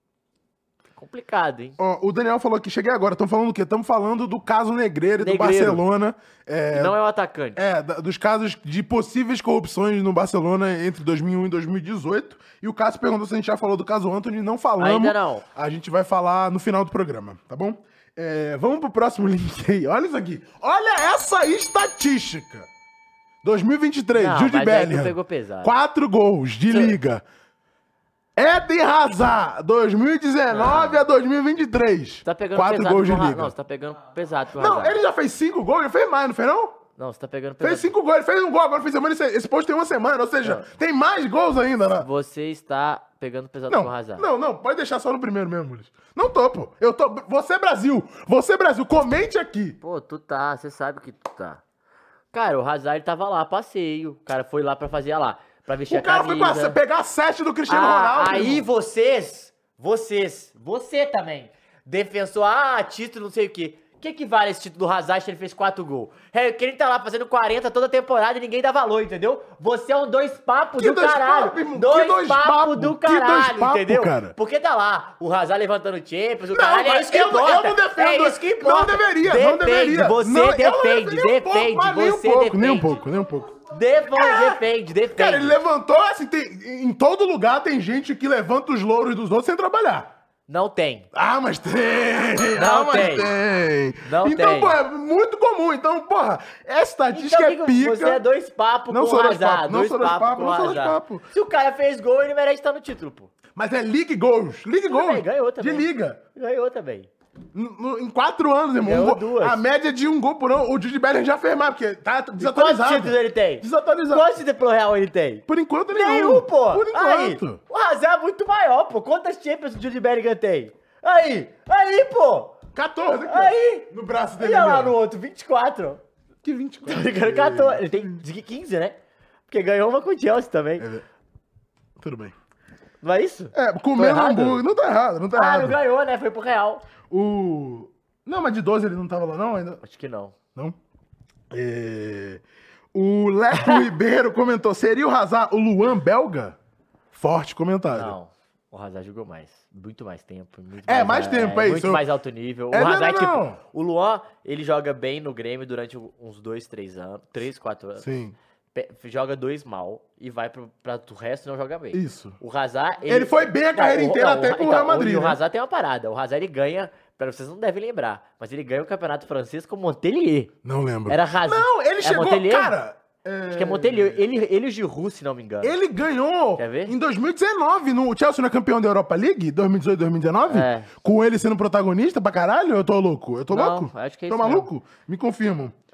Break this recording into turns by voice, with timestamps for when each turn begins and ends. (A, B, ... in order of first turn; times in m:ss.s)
0:00.9-0:01.8 A
0:01.8-0:07.0 B
0:05.2-0:05.8 A
0:06.7-0:07.6 A
0:07.6-0:22.7 B
0:14.8-0:15.4 A
0:23.4-0:27.2 B
0:24.1-0:25.7 A
0:26.7-0:27.0 A
0:28.4-0:33.5 B
0:30.5-0:31.0 A
0:32.2-0:35.0 A
0:34.6-0:36.8 B
0:37.0-0:37.9 A
0:37.6-0:42.1 B
0:40.4-0:40.7 A
0:42.0-0:44.3 A
0:43.7-0:49.8 B
0:49.8-0:51.6 A
0:52.3-0:56.8 A
0:55.9-0:58.7 B
0:57.7-1:23.0 A
1:10.8-1:14.3 B
1:16.5-1:23.5 B
1:23.7-1:25.6 A
1:24.1-1:30.1 B
1:30.5-1:31.1 A
1:31.1-1:38.2 B
1:32.5-1:33.3 A
1:34.0-1:34.8 A
1:37.1-1:43.3 A
1:38.9-1:41.2 B
1:43.5-1:46.2 B
1:44.8-1:47.1 A
1:47.5-1:54.3 B
1:48.8-1:49.6 A
1:52.4-2:02.6 A
1:55.5-1:57.6 B
2:02.7-2:05.0 B
2:03.2-2:06.0 A
2:06.4-2:08.2 B
2:06.8-2:09.0 A
2:09.5-2:10.9 A
2:10.8-2:11.0 B
2:12.0-2:12.3 B
2:13.0-2:14.6 A
2:13.5-2:15.8 B
2:15.3-2:16.8 A
2:17.1-2:19.8 B
2:19.8-2:20.3 A
2:21.5-2:22.4 B
2:22.9-2:26.6 B
2:23.5-2:23.8 A
2:27.1-2:28.2 B
2:27.9-2:38.1 A
2:30.9-2:32.0 B
2:32.7-2:33.6 B
2:38.0-2:38.4 B
2:38.7-2:50.5 A
2:41.9-2:42.4 B
2:43.1-2:45.4 B
2:50.6-2:54.2 B
2:51.1-2:52.8 A
2:53.5-2:55.8 A
2:55.6-3:05.7 B
2:56.6-2:57.0 A
3:00.5-3:00.9 A
3:03.5-3:04.7 A